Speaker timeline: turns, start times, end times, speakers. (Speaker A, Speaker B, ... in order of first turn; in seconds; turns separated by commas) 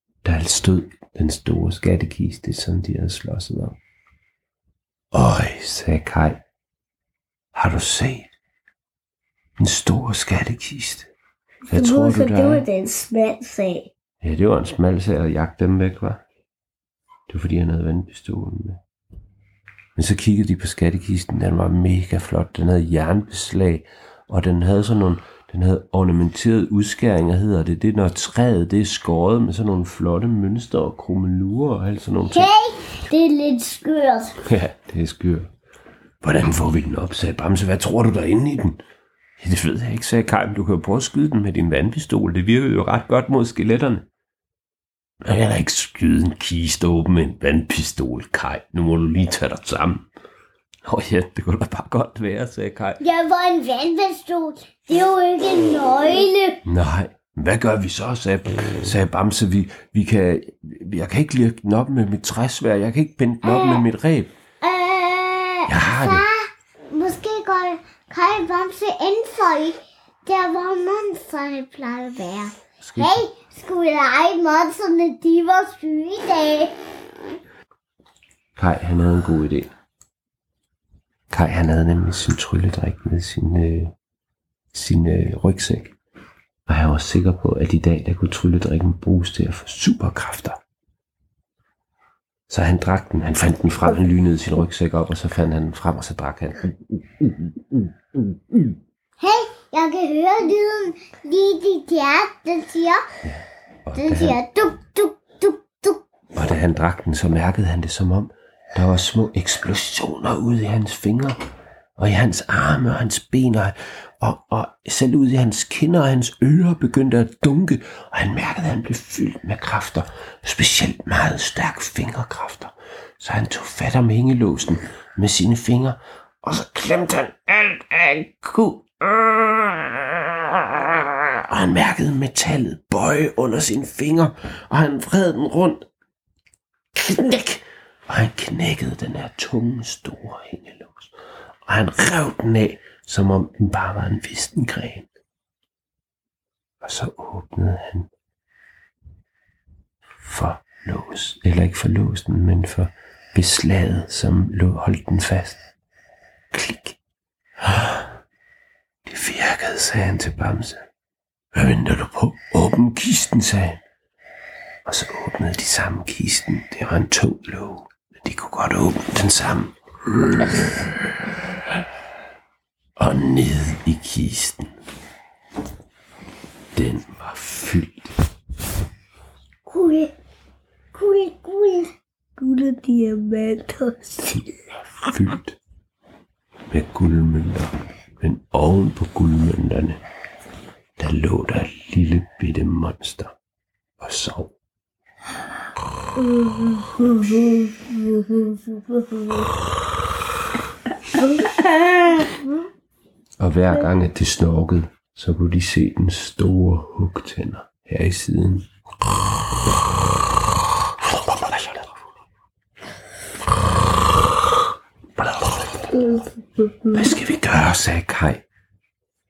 Speaker A: 0.2-3.8, Speaker A: 5.1-6.4, Speaker A: 7.5-8.3, Speaker A: 9.6-11.1, Speaker B: 11.7-13.9, Speaker A: 11.7-12.7, Speaker A: 14.2-16.2, Speaker A: 17.3-18.8, Speaker A: 19.9-32.5, Speaker C: 32.3-34.4, Speaker A: 34.4-35.5, Speaker A: 36.2-38.8, Speaker A: 39.4-44.0, Speaker A: 45.2-50.1, Speaker A: 50.8-53.0, Speaker C: 53.0-56.6, Speaker A: 56.6-64.3, Speaker C: 63.4-63.8, Speaker C: 64.6-76.7, Speaker A: 65.7-66.2, Speaker A: 72.8-73.2, Speaker A: 78.5-79.7, Speaker A: 81.3-83.9, Speaker A: 84.7-85.9, Speaker A: 86.7-90.6, Speaker A: 92.5-98.8, Speaker C: 99.2-103.0, Speaker A: 103.2-104.4, Speaker C: 104.0-106.0, Speaker A: 106.3-111.4, Speaker A: 112.0-135.8, Speaker A: 136.9-141.1, Speaker A: 141.7-145.1, Speaker A: 146.8-148.1, Speaker A: 150.2-155.6, Speaker A: 156.5-157.0, Speaker A: 157.6-158.1, Speaker A: 159.0-160.8, Speaker A: 161.5-163.8, Speaker A: 164.8-171.8, Speaker A: 173.0-174.7, Speaker A: 176.7-178.1, Speaker B: 179.7-180.1, Speaker C: 180.9-181.8, Speaker B: 182.4-184.4, Speaker A: 184.9-185.6, Speaker A: 186.7-190.0, Speaker A: 191.0-193.3, Speaker A: 194.0-194.5, Speaker B: 196.2-199.5, Speaker B: 201.1-202.4, Speaker A: 203.4-208.7, Speaker A: 210.9-212.0, Speaker A: 215.2-215.8, Speaker B: 215.9-216.9, Speaker A: 216.9-218.4